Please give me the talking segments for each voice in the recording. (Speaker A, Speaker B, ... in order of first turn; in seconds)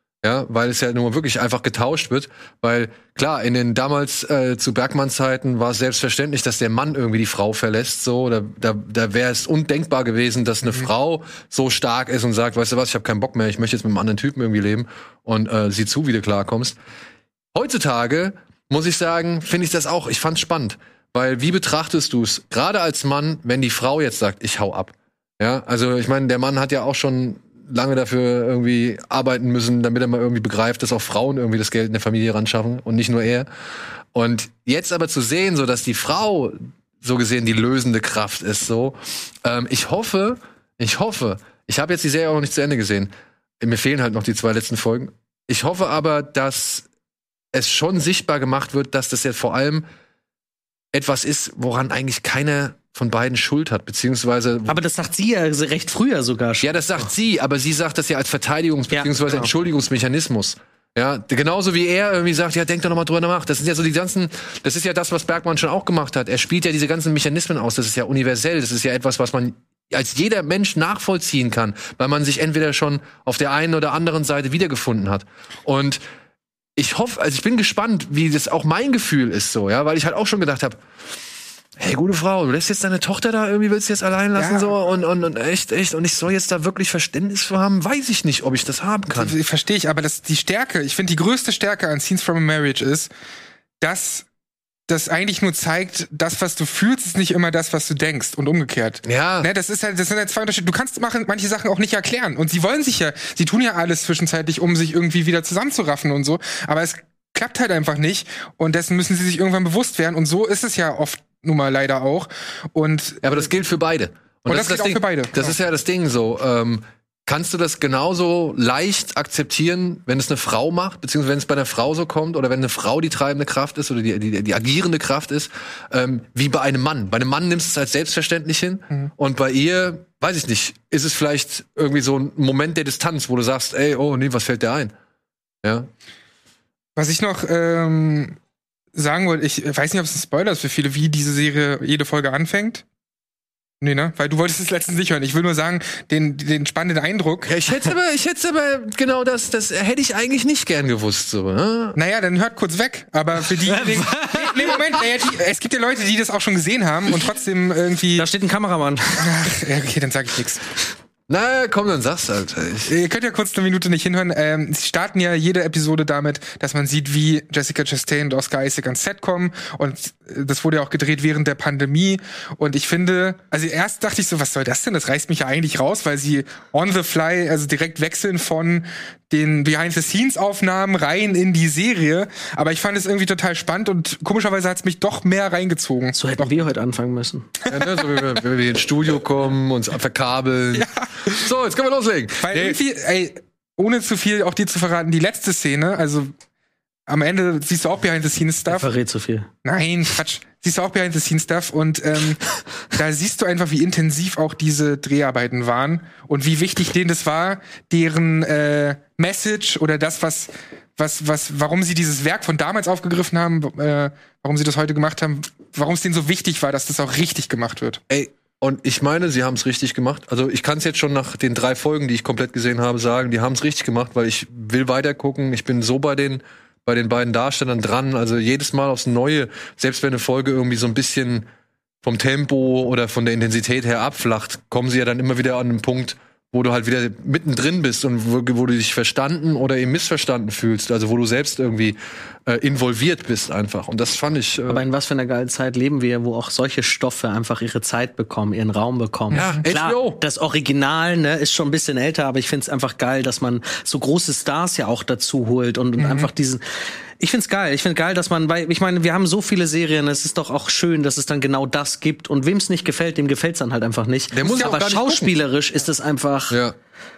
Speaker A: 0.2-16.8, 17.5-33.5, 34.1-46.9, 47.5-49.9, 50.9-54.8, 56.6-76.0, 76.8-80.8, 81.8-89.3, 99.0-99.5, 113.2-134.9, 135.6-135.9, 147.4-152.0, 161.3-162.9, 187.7-192.8, 218.1-231.5, 232.0-244.8, 249.3-250.2, 264.3-265.3, 266.5-266.8
Speaker B: 54.7-56.7, 58.9-59.5, 153.6-154.9, 158.2-159.4, 186.2-187.5, 198.7-199.5, 244.7-256.6, 257.2-266.6
Speaker C: 84.4-84.7, 89.1-93.1, 93.8-94.3, 94.9-113.4, 114.5-115.5, 137.0-138.4, 138.9-142.8, 143.8-147.5, 152.0-158.3, 159.2-160.7, 162.9-186.5, 187.7-188.1, 190.8-191.5, 192.4-196.3, 197.1-198.9, 199.6-218.0, 249.3-249.6, 256.0-256.3, 264.4-265.0